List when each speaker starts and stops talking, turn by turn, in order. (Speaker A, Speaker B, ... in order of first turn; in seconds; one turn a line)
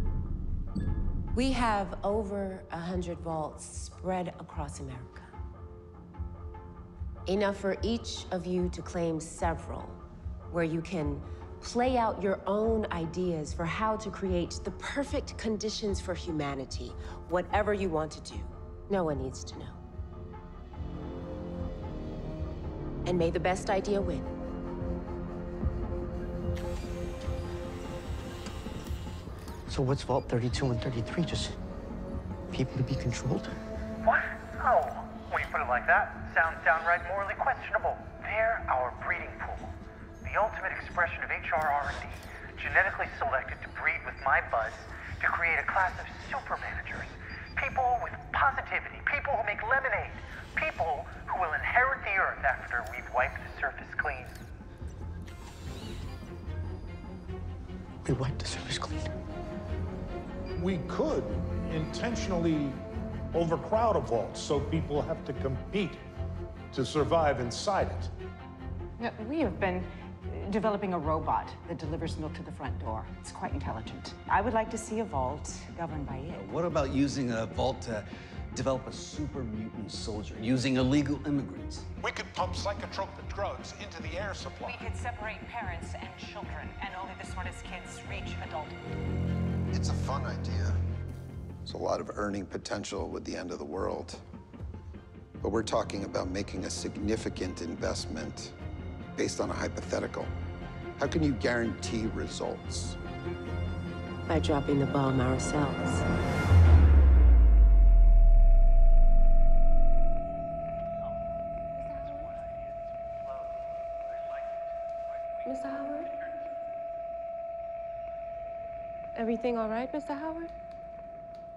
Speaker A: 1.4-5.3
Speaker A: 7.3-19.8
Speaker A: 23.1-24.3
Speaker B: 29.7-31.6
Speaker B: 32.5-33.6
Speaker C: 34.0-39.7
Speaker C: 40.2-54.3
Speaker B: 58.0-59.1
Speaker D: 60.6-66.0
Speaker D: 66.7-68.1
Speaker E: 69.0-76.4
Speaker F: 76.3-81.9
Speaker D: 82.0-84.9
Speaker E: 84.6-88.8
Speaker G: 89.7-90.8
Speaker G: 91.7-94.2
Speaker G: 95.4-98.5
Speaker G: 99.2-100.3
Speaker G: 101.0-103.0
Speaker A: 104.3-106.1
Speaker A: 111.9-112.3
Speaker A: 115.4-116.2
Speaker A: 119.2-120.5